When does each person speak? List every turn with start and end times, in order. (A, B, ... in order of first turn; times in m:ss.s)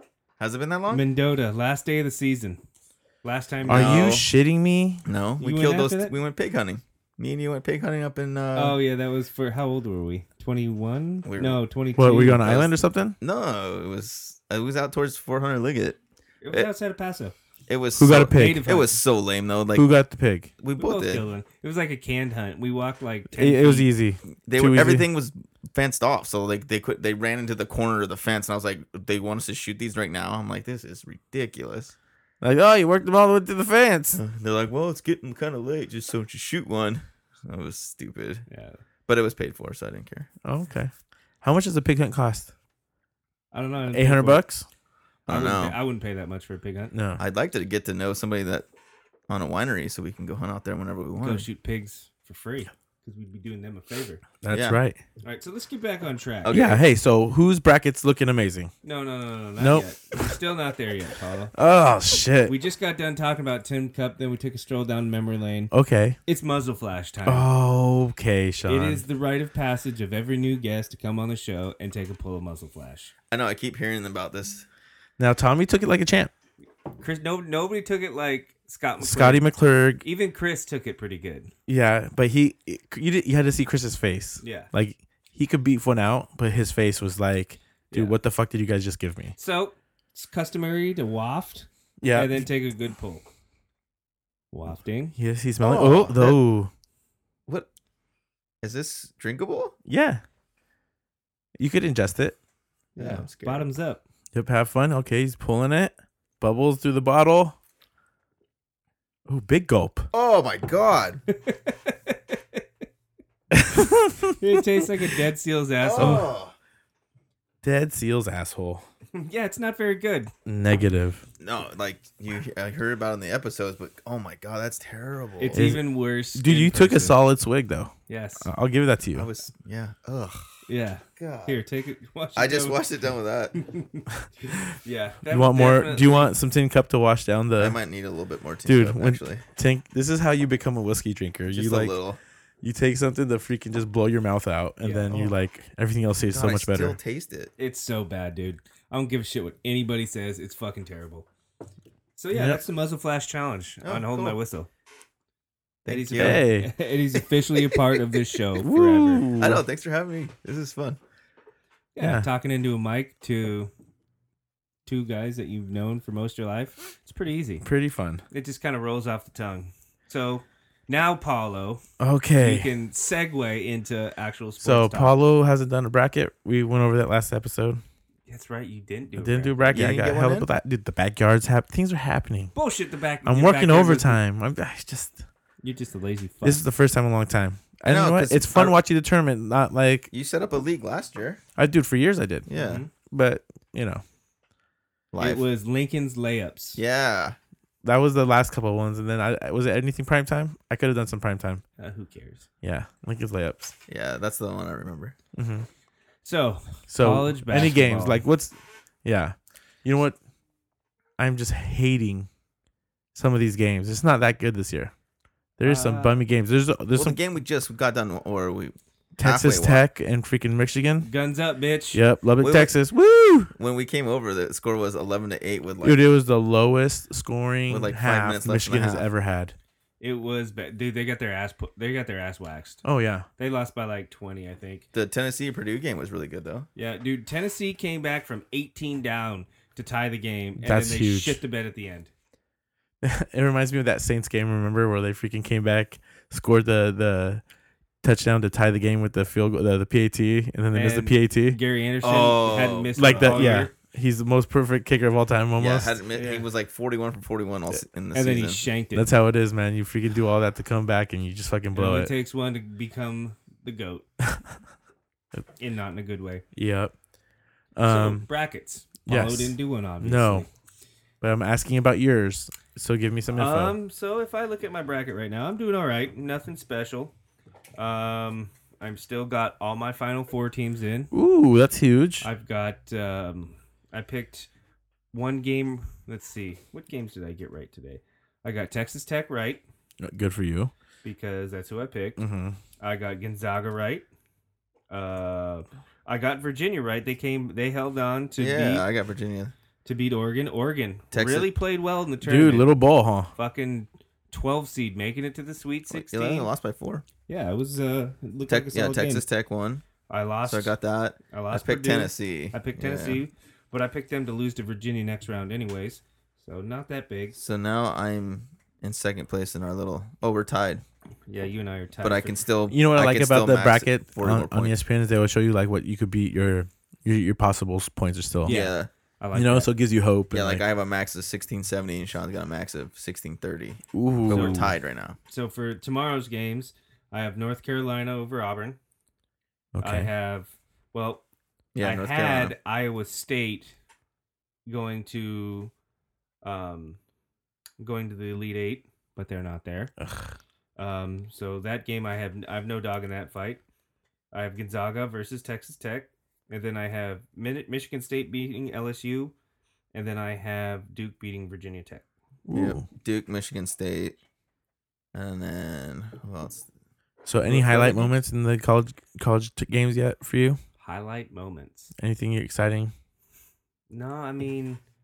0:00.4-0:01.0 A
0:00.9-0:02.6 B
0:03.2-0:04.1 B
0:03.7-0:05.0 C
0:03.7-0:04.3 A
0:05.0-0:08.8 A
0:05.4-0:06.1 B
0:08.5-0:12.6 B
0:11.2-0:11.6 A
0:12.0-0:13.2 C
0:12.4-0:16.0 A
0:16.4-0:17.3 B
0:17.7-0:19.9 A
0:18.0-0:18.7 C
0:18.2-0:19.0 B
0:19.7-0:20.5 C
0:20.6-0:21.2 A
0:20.8-0:23.9 B
0:23.3-0:25.1 C
0:24.4-0:32.0 A
0:32.4-0:34.2 C
0:34.1-0:38.4 A
0:38.5-0:38.8 B
0:39.1-0:40.3 A
0:40.4-0:40.9 C
0:41.4-0:42.5 C
0:43.5-0:44.4 B
0:43.9-0:44.6 C
0:45.3-0:45.8 A
0:45.3-0:46.9 B
0:46.9-0:47.2 C
0:47.2-0:48.6 A
0:49.3-0:51.4 A
0:51.2-0:54.2 B
0:54.4-0:55.0 C
0:54.5-0:54.8 A
0:55.2-0:56.6 B
0:56.4-0:56.8 A
0:56.5-0:58.7 C
0:58.8-1:01.5 B
0:59.6-1:00.2 C
1:01.5-1:02.5 C
1:02.4-1:05.7 B
1:05.7-1:06.2 C
1:06.3-1:07.5 B
1:07.2-1:09.0 C
1:08.6-1:13.1 B
1:13.3-1:14.6 A
1:15.2-1:16.3 C
1:17.0-1:19.5 B
1:19.0-1:20.0 C
1:20.0-1:21.5 B
1:21.7-1:29.3 C
1:24.4-1:24.7 B
1:27.9-1:28.2 B
1:29.4-1:33.2 B
1:32.0-1:32.5 C
1:34.5-1:35.1 B
1:35.2-1:36.7 C
1:35.6-1:36.4 A
1:38.6-1:39.7 A
1:39.9-1:40.2 C
1:41.6-1:42.4 C
1:43.0-1:43.7 A
1:43.0-1:44.0 B
1:44.3-1:47.6 C
1:49.3-1:50.1 C
1:50.1-1:51.2 A
1:51.3-1:52.6 B
1:53.5-1:54.4 C
1:54.4-1:56.3 B
1:55.8-1:56.5 A
1:56.0-1:56.3 C
1:57.6-1:58.8 C
1:59.1-2:00.3 B
2:00.4-2:01.2 C
2:01.4-2:05.7 A
2:05.4-2:07.2 B
2:05.5-2:09.3 C
2:08.1-2:08.5 B
2:09.1-2:10.6 A
2:10.7-2:12.8 B
2:11.2-2:11.6 A
2:12.4-2:13.6 A
2:13.6-2:16.3 B
2:15.3-2:17.8 C
2:17.6-2:19.4 A
2:18.6-2:22.0 C
2:21.5-2:22.2 A
2:22.6-2:27.0 C
2:24.8-2:25.1 B
2:26.3-2:27.5 A
2:27.6-2:31.3 B
2:32.2-2:34.7 B
2:32.3-2:32.6 C
2:33.8-2:34.4 A
2:35.8-2:36.4 A
2:35.9-2:39.3 B
2:36.2-2:36.7 C
2:38.6-2:39.6 C
2:39.4-2:41.0 A
2:41.9-2:43.7 B
2:42.0-2:42.3 C
2:44.8-2:47.6 B
2:47.6-2:48.2 C
2:48.3-2:51.8 B
2:52.0-2:52.7 C
2:52.4-2:55.2 B
2:54.6-2:57.8 C
2:58.3-3:00.0 B
2:59.2-3:02.5 C
2:59.7-3:00.5 A
3:02.5-3:04.2 B
3:03.2-3:05.2 C
3:05.6-3:06.6 B
3:06.4-3:10.1 C
3:07.8-3:08.8 A
3:10.1-3:11.4 A
3:11.6-3:12.5 C
3:12.5-3:12.8 A
3:12.5-3:12.9 B
3:13.1-3:14.0 C
3:15.1-3:15.4 A
3:15.2-3:16.8 B
3:16.8-3:17.4 A
3:17.8-3:21.6 C
3:21.8-3:22.5 B
3:22.6-3:23.7 C
3:23.9-3:25.1 A
3:25.3-3:25.7 C
3:26.2-3:28.2 B
3:26.9-3:30.2 C
3:31.2-3:32.3 C
3:33.1-3:34.9 C
3:35.6-3:37.2 C
3:35.6-3:36.2 B
3:36.9-3:39.8 A
3:39.2-3:41.1 C
3:41.0-3:42.0 B
3:41.9-3:43.5 C
3:42.4-3:42.7 A
3:43.6-3:46.0 A
3:45.8-3:49.5 C
3:47.7-3:49.1 A
3:50.0-3:52.8 B
3:52.8-3:53.3 C
3:53.4-3:54.8 B
3:54.9-3:56.7 A
3:56.8-4:02.1 B
4:00.6-4:01.4 C
4:03.0-4:07.4 C
4:08.0-4:11.6 C
4:10.7-4:13.7 B
4:12.0-4:13.6 A
4:13.0-4:16.0 C
4:15.6-4:18.6 A
4:16.1-4:16.4 B
4:18.1-4:19.1 B
4:18.9-4:22.1 C
4:21.7-4:24.0 B
4:25.6-4:26.4 B
4:26.5-4:26.9 C
4:27.8-4:28.3 C
4:27.8-4:30.5 B
4:29.0-4:30.4 C
4:31.2-4:33.8 C
4:33.3-4:37.1 B
4:37.8-4:41.1 B
4:41.1-4:42.2 C
4:42.2-4:44.5 B
4:45.1-4:49.6 B
4:50.0-4:50.7 C
4:51.0-4:52.2 B
4:52.2-4:52.6 C
4:52.8-4:54.0 B
4:54.9-4:58.8 B
4:58.4-4:59.5 A
4:59.8-5:02.8 B
5:01.1-5:01.5 A
5:02.2-5:03.3 C
5:03.3-5:06.5 B
5:05.9-5:07.0 A
5:07.3-5:09.2 B
5:08.5-5:09.8 A
5:10.1-5:10.7 B
5:10.4-5:13.2 A
5:11.3-5:17.4 B
5:17.4-5:20.8 A
5:21.3-5:22.4 B
5:22.0-5:24.7 A
5:22.7-5:28.6 C
5:28.4-5:29.7 B
5:28.4-5:28.9 A
5:29.3-5:30.6 C
5:30.3-5:35.2 A
5:33.9-5:34.7 C
5:34.3-5:34.7 B
5:35.3-5:38.8 B
5:39.7-5:40.1 C
5:39.8-5:41.2 B
5:41.7-5:42.5 A
5:41.8-5:43.7 B
5:44.6-5:45.7 B
5:46.4-5:47.0 B
5:47.8-5:49.9 B
5:50.0-5:50.3 C
5:50.8-5:53.6 B
5:54.3-5:59.3 B
5:59.9-6:02.0 B
6:02.5-6:02.8 C
6:02.5-6:04.2 A
6:05.1-6:06.7 A
6:07.2-6:10.6 C
6:07.5-6:08.0 B
6:07.5-6:08.0 A
6:10.8-6:11.9 B
6:12.0-6:12.9 C
6:13.9-6:14.8 B